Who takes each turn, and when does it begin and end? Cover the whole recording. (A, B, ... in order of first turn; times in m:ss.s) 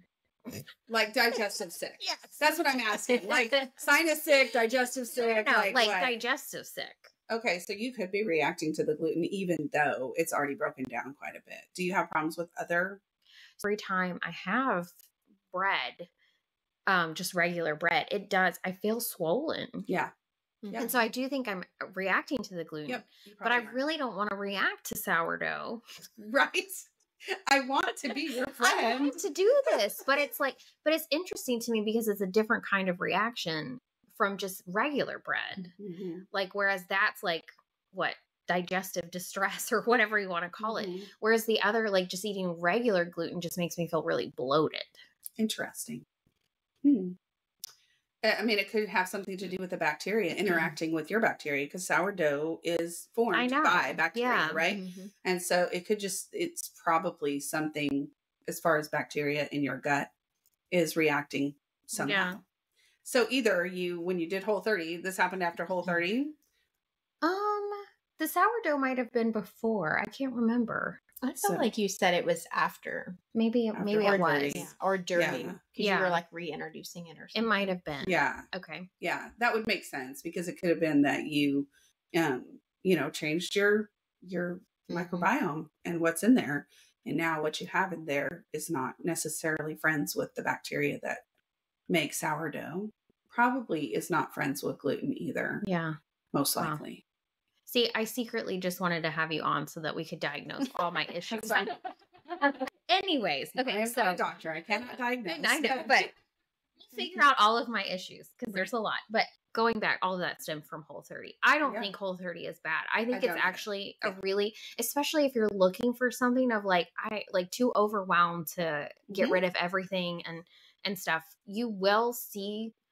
0:00.9-0:06.1 A
0:05.2-0:07.1 B
0:07.3-0:13.0 A
0:13.6-0:15.0 B
0:15.5-0:16.1 B
0:16.8-0:19.9 B
0:19.9-0:20.1 A
0:20.7-0:21.0 A
0:20.7-0:25.8 B
0:22.9-0:23.8 A
0:26.2-0:26.9 A
0:27.5-0:29.7 A
0:28.6-0:35.7 B
0:35.6-0:36.2 A
0:36.3-0:45.0 B
0:40.6-0:41.1 A
0:45.4-0:46.0 A
0:46.8-0:47.2 A
0:48.2-1:00.1 A
0:53.3-0:54.6 B
0:54.5-0:55.1 C
1:00.7-1:02.4 A
1:01.9-1:02.4 B
1:03.0-1:06.4 A
1:07.2-1:11.0 B
1:11.2-1:13.2 C
1:11.4-1:11.7 A
1:13.3-1:14.7 B
1:13.7-1:15.6 A
1:14.0-1:17.7 C
1:15.8-1:16.2 B
1:17.3-1:18.9 B
1:18.0-1:18.5 A
1:19.0-1:31.2 A
1:24.9-1:25.3 C
1:31.9-1:35.6 A
1:35.6-1:36.0 B
1:36.3-1:37.0 A
1:37.7-1:41.7 B
1:41.3-1:41.7 A
1:42.4-1:44.2 B
1:43.6-1:46.1 A
1:45.2-1:46.1 B
1:46.9-2:02.7 B
1:51.6-1:51.9 A
1:53.1-1:54.1 A
1:59.1-1:59.4 A